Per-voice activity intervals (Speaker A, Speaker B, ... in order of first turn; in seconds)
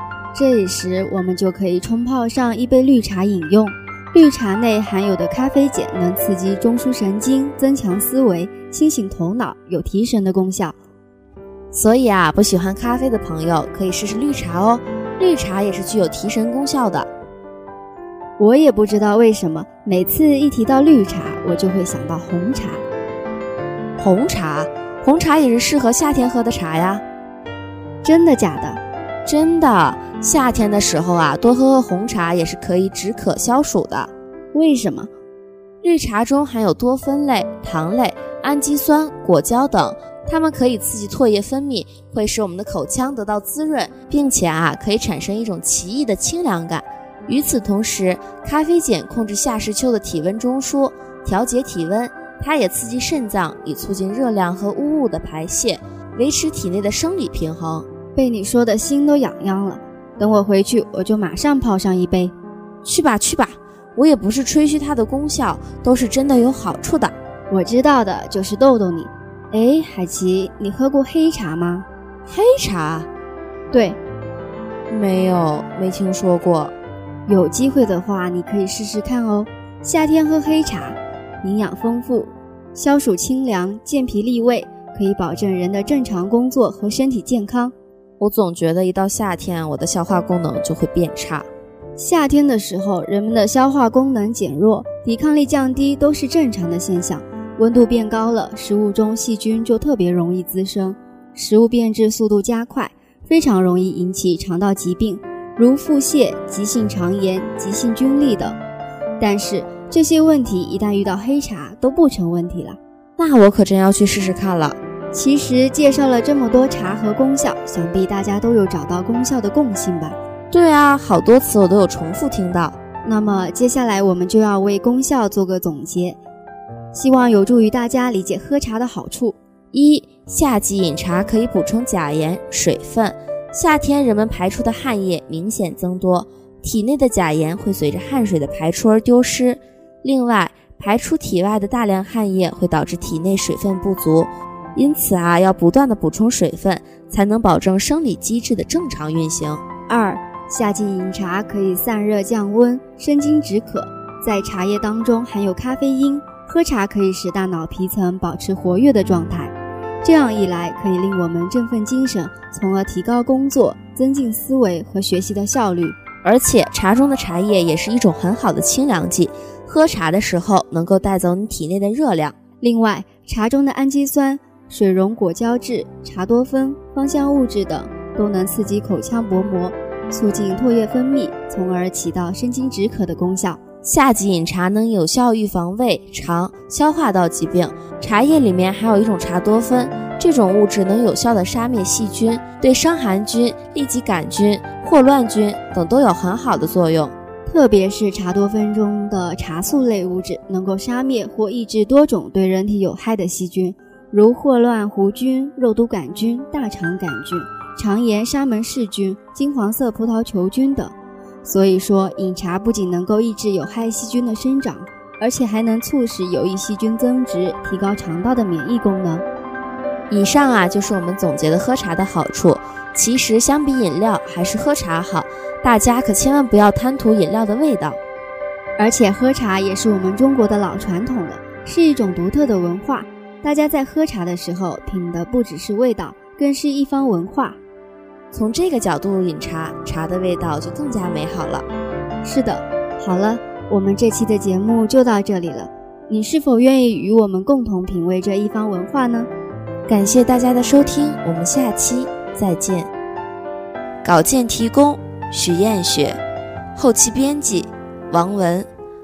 Speaker A: 0.3-10.8, 18.4-22.8, 28.0-28.8, 34.5-35.1, 58.1-62.3, 67.5-71.9, 73.7-74.0, 77.3-87.7, 92.0-108.6, 109.2-112.8, 115.1-120.2, 123.0-126.2, 126.9-129.4, 149.9-166.0, 172.6-183.6, 197.5-219.2, 228.8-237.6, 242.2-249.3
Speaker B: 11.7-17.1, 24.0-27.0, 29.2-34.1, 35.8-57.9, 62.9-67.1, 72.3-73.1, 74.9-76.7, 88.2-91.5, 113.2-114.8, 120.5-122.8, 129.7-149.6, 166.2-172.4, 183.8-197.1, 220.1-228.0, 238.3-241.7, 249.9-252.9, 254.0-256.2, 256.8-258.7